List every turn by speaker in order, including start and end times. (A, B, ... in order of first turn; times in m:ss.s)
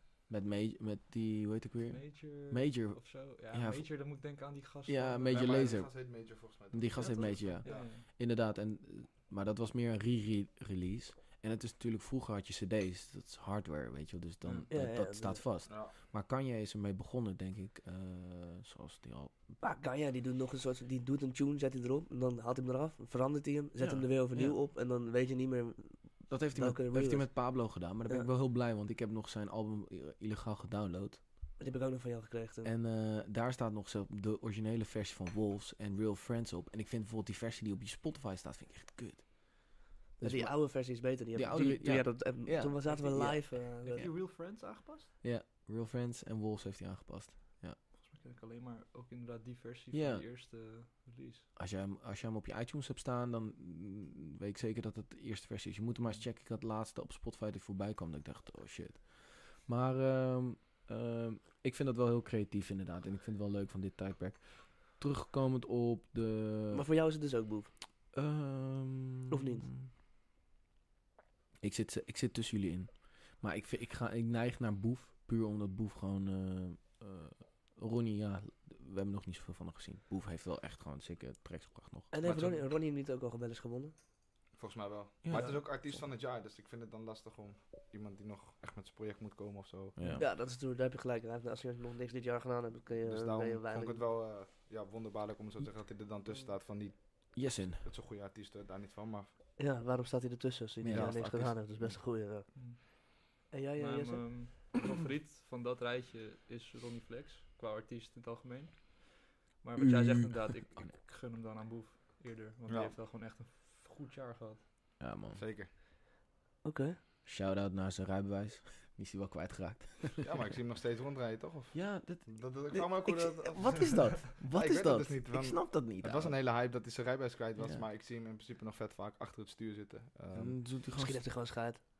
0:00.3-0:03.8 A
0:01.9-0:05.6 B
0:04.9-0:06.2 A
0:05.3-0:07.9 C
0:06.7-0:19.3 A
0:07.0-0:08.0 B
0:14.7-0:15.4 D
0:15.7-0:15.9 C
0:19.6-0:28.3 D
0:23.8-0:24.6 A
0:26.3-0:31.2 A
0:31.6-0:32.7 D
0:32.6-0:44.1 A
0:40.2-0:44.1 D
0:42.9-0:45.1 B
0:45.2-0:47.8 A
0:47.9-0:51.5 B
0:49.9-0:50.2 A
0:51.6-1:06.8 A
1:06.7-1:07.7 D
1:08.1-1:09.9 A
1:09.3-1:09.7 D
1:11.6-1:22.1 A
1:22.1-1:23.9 D
1:22.2-1:22.6 C
1:24.5-1:30.0 C
1:25.2-1:26.0 A
1:30.0-1:30.3 A
1:30.1-1:34.0 D
1:33.0-1:39.3 C
1:37.3-1:37.9 A
1:39.6-1:42.5 D
1:40.8-1:41.8 A
1:40.9-1:41.5 C
1:42.5-1:42.8 B
1:43.5-1:44.4 D
1:43.8-1:54.6 B
1:49.8-1:50.9 A
1:52.7-1:52.9 C
1:55.0-1:55.4 A
1:55.3-1:55.7 C
1:56.6-1:57.0 D
1:57.2-2:00.3 A
2:00.2-2:10.6 C
2:01.7-2:06.4 A
2:02.7-2:03.9 D
2:07.6-2:07.8 A
2:10.3-2:11.3 A
2:10.9-2:11.8 D